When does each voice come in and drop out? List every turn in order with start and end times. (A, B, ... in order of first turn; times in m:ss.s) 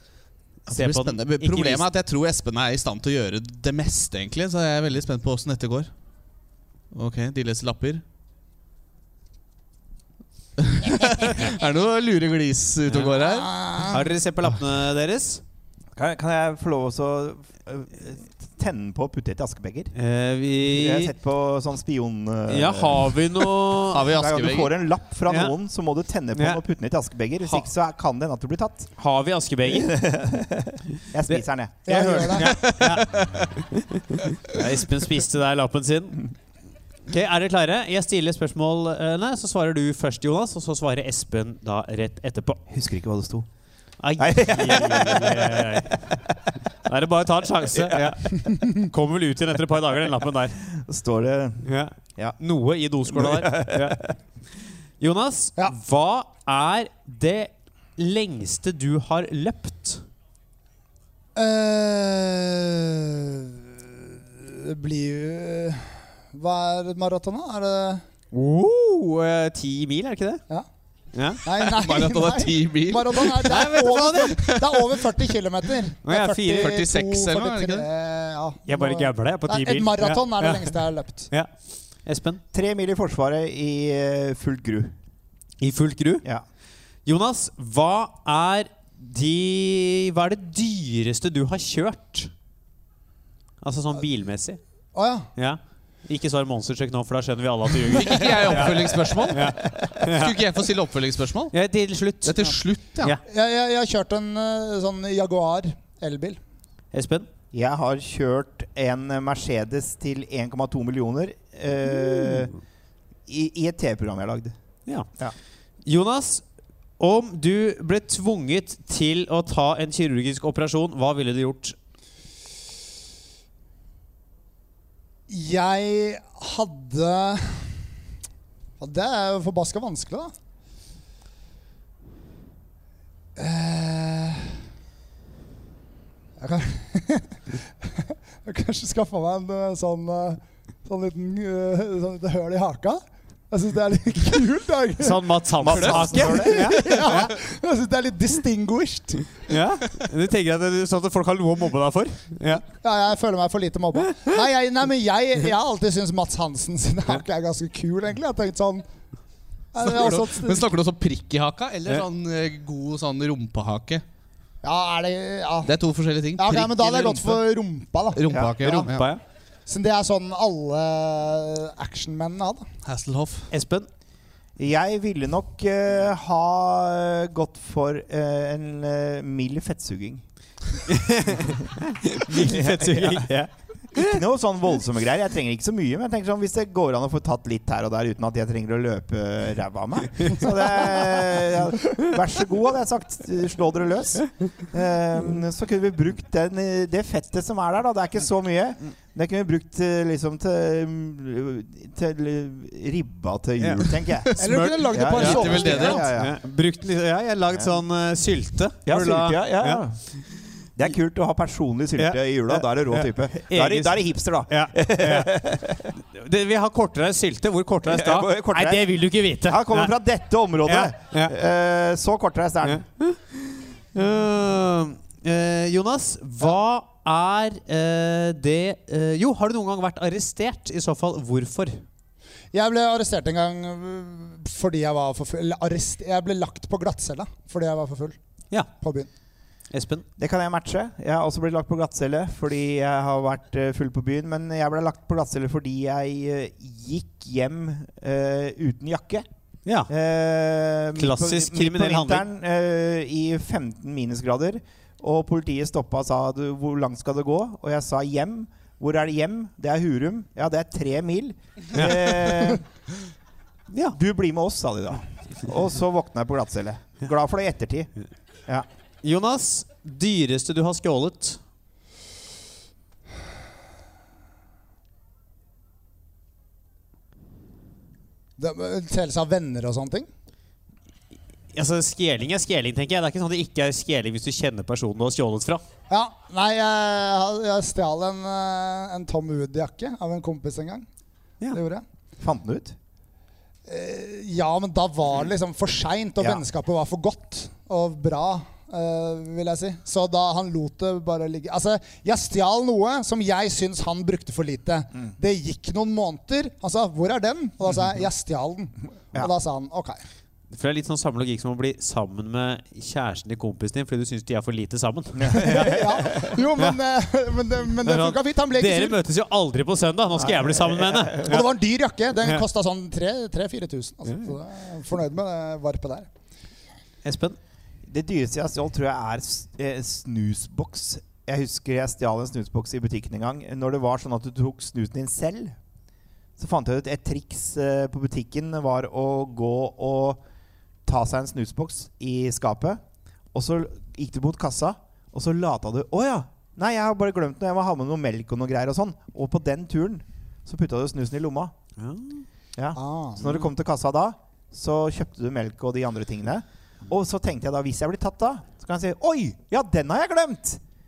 0:00.7-0:05.9 A
0:00.7-0:01.8 B
0:06.9-0:08.0 A
0:10.6-0:13.5 A
0:13.2-0:14.0 C
0:13.9-0:15.4 B
0:16.0-0:19.9 D
0:19.9-0:21.1 B
0:20.7-0:23.4 D
0:22.5-0:24.1 B
0:23.9-0:24.8 A
0:24.1-0:28.9 D
0:25.3-0:25.6 B
0:26.4-0:26.6 B
0:29.0-0:29.9 B
0:29.8-0:32.5 D
0:31.3-0:36.3 B
0:31.8-0:32.6 C
0:32.6-0:33.5 A
0:37.1-0:42.6 B
0:42.7-0:43.5 D
0:44.0-0:46.1 B
0:44.2-0:45.8 D
0:46.8-0:50.6 B
0:47.8-0:48.2 D
0:50.8-0:52.4 D
0:51.6-0:54.0 B
0:53.1-0:54.1 D
0:55.0-1:00.0 B
1:01.4-1:08.0 C
1:08.3-1:10.4 B
1:11.1-1:11.4 B
1:11.4-1:21.3 C
1:11.6-1:13.6 A
1:13.4-1:14.4 B
1:14.2-1:15.0 A
1:16.0-1:16.8 B
1:16.5-1:17.9 A
1:18.7-1:21.5 B
1:22.1-1:22.4 B
1:22.5-1:24.9 D
1:25.6-1:26.2 B
1:27.0-1:32.3 B
1:33.6-1:34.6 B
1:35.0-1:35.3 C
1:35.4-1:40.4 B
1:37.9-1:41.5 A
1:41.5-1:43.2 B
1:42.2-1:43.2 A
1:43.2-1:46.4 C
1:46.9-1:47.3 B
1:47.5-1:52.5 D
1:53.3-1:54.6 D
1:55.8-1:56.4 B
1:57.0-2:01.8 B
2:05.3-2:07.9 C
2:08.8-2:10.3 C
2:13.4-2:14.6 C
2:16.4-2:25.3 C
2:25.0-2:27.3 B
2:25.6-2:27.0 D
2:25.7-2:26.1 A
2:25.9-2:29.4 C
2:29.5-2:32.6 B
2:32.8-2:38.9 C
2:39.7-2:40.7 C
2:39.8-2:44.0 A
2:44.6-2:45.7 C
2:45.7-2:47.4 A
2:46.4-2:48.2 C
2:48.1-2:49.1 A
2:48.3-2:48.6 D
2:48.6-2:49.2 B
2:49.7-2:52.7 C
2:52.8-2:53.5 A
2:53.5-2:53.9 B
2:54.6-3:00.2 D
3:00.9-3:04.2 B
3:02.3-3:03.3 D
3:03.9-3:24.4 D
3:23.6-3:29.8 B
3:24.4-3:26.1 C
3:24.9-3:26.4 D
3:25.1-3:26.1 A
3:28.9-3:30.0 D
3:30.8-3:35.9 D
3:32.0-3:35.4 B
3:36.0-3:40.0 B
3:37.9-3:38.9 D
3:39.5-3:42.8 D
3:40.6-3:41.3 B
3:42.6-3:51.8 B
3:52.5-3:58.2 C
3:58.8-3:59.1 C
3:59.7-4:00.1 B
4:00.2-4:09.3 D
4:09.7-4:09.9 B
4:09.9-4:22.6 D
4:11.0-4:12.3 B
4:21.7-4:22.2 B
4:23.7-4:24.0 B
4:24.0-4:27.9 D
4:29.0-4:31.4 B
4:38.4-4:40.1 C
4:41.5-4:45.6 B
4:45.9-4:50.9 C
4:51.5-4:51.8 C
4:52.2-4:52.8 D
4:53.7-5:10.0 C
5:10.5-5:16.8 B
5:15.2-5:16.3 D
5:15.3-5:19.0 C
5:17.8-5:21.5 B
5:20.2-5:21.2 D
5:21.2-5:26.1 C
5:27.0-5:27.4 B
5:27.9-5:35.6 D
5:36.4-5:40.2 D
5:40.9-5:42.8 D
5:43.3-5:51.5 D
5:51.8-5:52.2 B
5:52.6-6:00.6 D
5:52.8-5:53.4 C